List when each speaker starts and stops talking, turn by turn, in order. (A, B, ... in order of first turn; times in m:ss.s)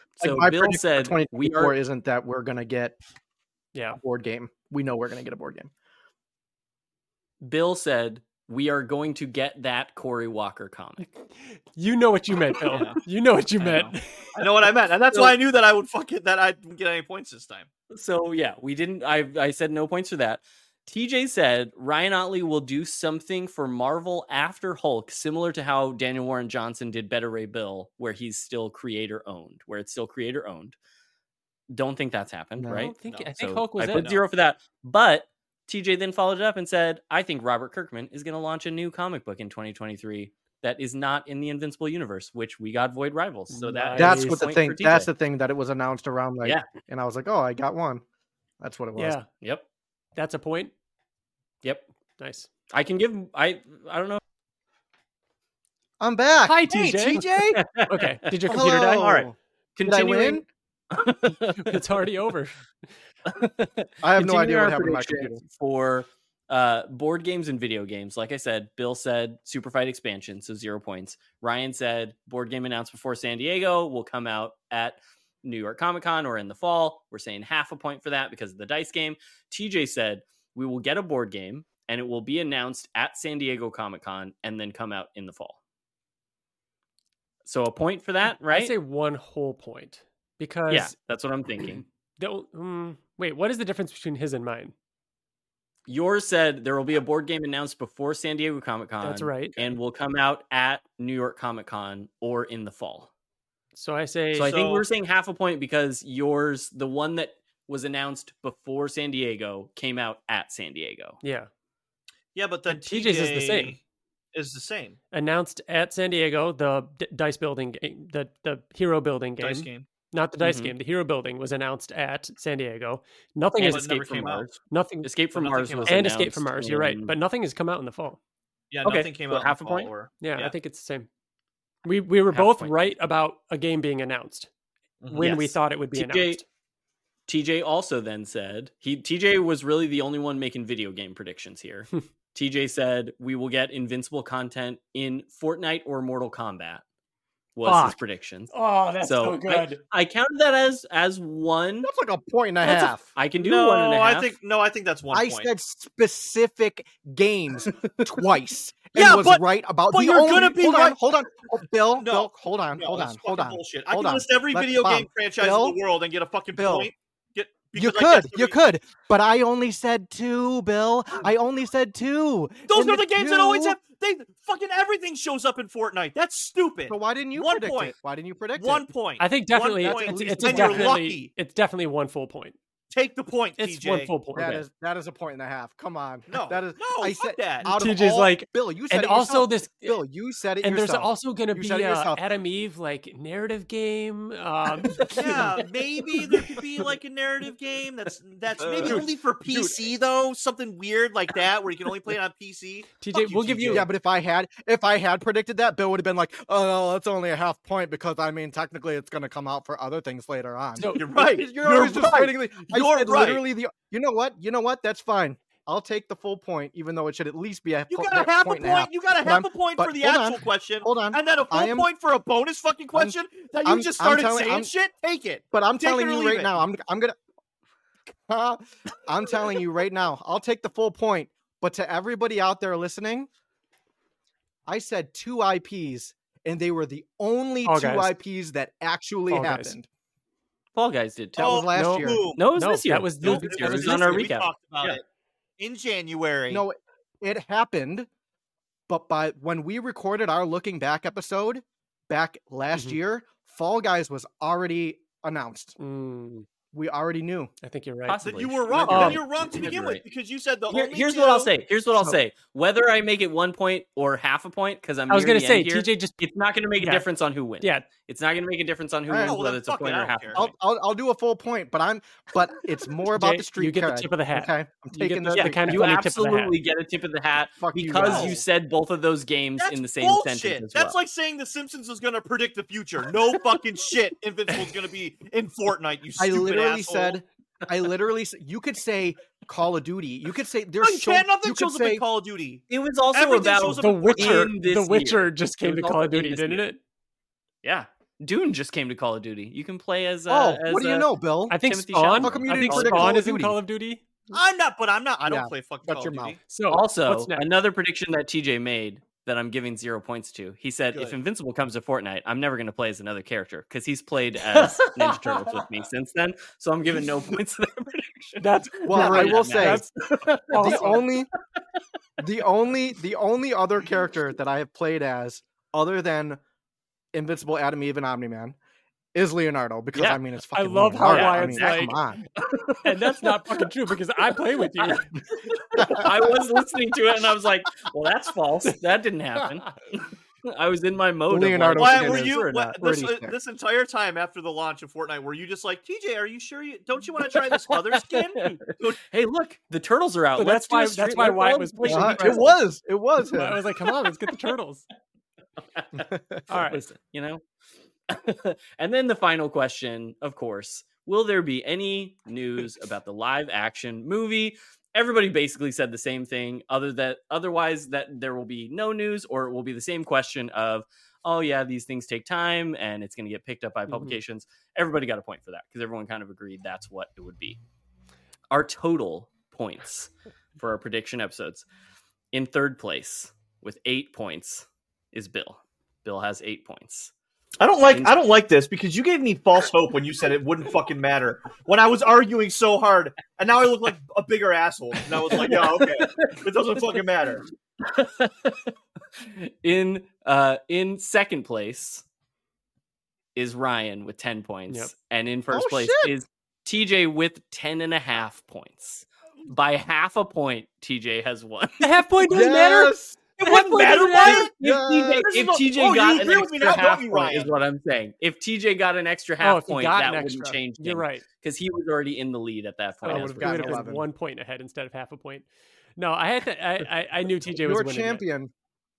0:00.2-0:01.8 A
0:00.2-0:02.9 B
0:03.7-0:04.0 C
0:03.9-0:05.7 B
0:07.4-0:11.1 A
0:11.4-0:14.3 C
0:12.7-0:13.0 D
0:13.6-0:17.7 D
0:17.9-0:30.8 A
0:31.7-0:45.1 A
0:32.6-0:32.9 B
0:32.7-0:34.2 C
0:43.5-0:44.4 C
0:43.9-0:48.0 B
0:48.6-0:49.2 B
0:49.0-0:49.3 C
0:50.2-0:50.7 C
0:52.2-0:52.5 C
0:52.7-0:54.2 A
0:56.0-0:57.6 B
0:56.4-0:57.3 C
0:56.7-0:57.5 D
0:57.5-1:01.8 A
0:57.9-0:59.2 C
0:58.5-1:00.4 B
1:01.5-1:02.6 C
1:03.3-1:25.6 A
1:04.0-1:05.4 B
1:27.4-1:28.7 A
1:28.5-1:30.9 C
1:30.7-1:31.8 A
1:32.2-1:34.7 C
1:35.9-1:43.1 A
1:39.0-1:39.6 C
1:43.7-1:44.7 C
1:44.3-1:51.2 A
1:44.4-1:44.8 D
1:51.2-1:51.5 C
1:52.3-1:53.8 D
1:52.7-1:53.8 C
1:54.3-1:55.0 D
1:55.1-2:04.0 C
1:59.4-1:59.9 D
2:00.4-2:00.7 A
2:03.6-2:04.4 D
2:03.6-2:07.1 A
2:04.7-2:05.2 C
2:05.3-2:06.1 D
2:05.8-2:08.2 C
2:08.7-2:10.5 D
2:08.8-2:09.9 A
2:10.2-2:11.1 C
2:11.8-2:14.5 C
2:12.3-2:12.9 A
2:15.0-2:15.3 D
2:15.1-2:16.4 C
2:15.1-2:16.4 A
2:17.3-2:26.8 A
2:27.6-2:31.9 A
2:27.6-2:28.0 C
2:28.5-2:29.8 C
2:31.8-2:33.1 B
2:32.6-2:34.3 A
2:33.4-2:35.5 D
2:35.1-2:45.8 B
2:38.9-2:41.0 D
2:42.0-2:48.6 D
2:46.6-2:46.9 B
2:47.7-2:53.8 B
2:52.7-2:57.9 D
2:56.9-2:58.8 B
2:58.6-3:01.3 D
2:59.2-3:02.5 C
2:59.8-3:00.9 B
3:02.9-3:04.1 D
3:03.6-3:04.6 C
3:04.3-3:12.2 B
3:06.3-3:07.7 D
3:07.6-3:10.0 C
3:10.6-3:15.4 C
3:14.9-3:16.8 A
3:15.1-3:23.9 D
3:18.6-3:19.0 A
3:18.8-3:19.9 B
3:23.0-3:23.9 C
3:23.7-3:41.9 B
3:30.8-3:31.0 C
3:31.0-3:33.4 D
3:37.9-3:46.6 D
3:42.9-3:44.7 B
3:45.5-3:47.1 B
3:48.3-3:53.3 B
3:54.7-3:59.9 B
3:57.6-3:58.1 C
3:59.3-3:59.8 C
4:00.7-4:01.6 A
4:01.4-4:02.2 B
4:01.4-4:02.4 D
4:01.7-4:04.1 C
4:02.4-4:05.0 A
4:03.2-4:05.0 D
4:05.6-4:06.6 D
4:06.5-4:08.1 B
4:08.9-4:15.8 B
4:12.7-4:13.0 C
4:15.8-4:16.4 C
4:16.7-4:17.5 B
4:17.6-4:18.2 C
4:18.1-4:20.0 A
4:18.2-4:21.5 D
4:18.9-4:19.2 C
4:20.7-4:30.5 A
4:25.1-4:26.2 C
4:26.8-4:27.0 C
4:27.6-4:27.9 C
4:29.1-4:29.4 B
4:29.2-4:30.4 D
4:30.3-4:35.9 B
4:33.1-4:36.5 C
4:35.3-4:41.0 A
4:37.6-4:38.4 B
4:37.9-4:38.4 D
4:39.6-4:47.2 D
4:46.2-4:52.0 B
4:50.8-4:54.5 D
4:52.7-4:56.6 A
4:53.8-4:56.8 C
4:57.6-5:03.2 A
5:00.3-5:01.6 B
5:01.5-5:04.0 C
5:02.2-5:03.6 B
5:04.3-5:06.4 D
5:05.2-5:06.4 B
5:06.5-5:07.4 C
5:06.7-5:21.0 A
5:10.9-5:11.2 D
5:14.4-5:15.6 C
5:18.4-5:21.0 C
5:18.9-5:19.8 B
5:20.5-5:21.3 B
5:22.2-5:26.4 B
5:27.1-5:28.6 B
5:29.1-5:32.2 B
5:30.5-5:32.0 C
5:31.0-5:33.6 A
5:32.8-5:35.1 C
5:34.8-5:42.5 A
5:35.8-5:36.2 B
5:41.3-5:43.3 B
5:41.8-5:49.0 D
5:47.3-5:52.5 A
5:50.4-5:52.6 C
5:51.9-5:53.6 B
5:53.3-5:54.8 C
5:55.8-5:57.4 A
5:56.0-5:56.4 B
5:56.5-5:56.8 C
5:58.1-6:17.6 A
6:13.9-6:14.2 C
6:18.5-6:21.6 A
6:22.3-6:27.1 A
6:27.6-6:37.4 D
6:27.9-6:28.1 A
6:35.3-6:36.4 A
6:37.8-6:42.0 A
6:43.3-6:51.9 A
6:45.5-6:46.1 B
6:51.8-6:54.4 C
6:52.3-6:53.2 B
6:53.4-7:03.8 A
6:53.4-6:54.5 D
6:54.6-6:55.3 B
6:55.2-6:57.5 D
6:59.4-7:01.2 C
7:03.0-7:08.2 C
7:03.0-7:04.0 B
7:07.5-7:08.5 B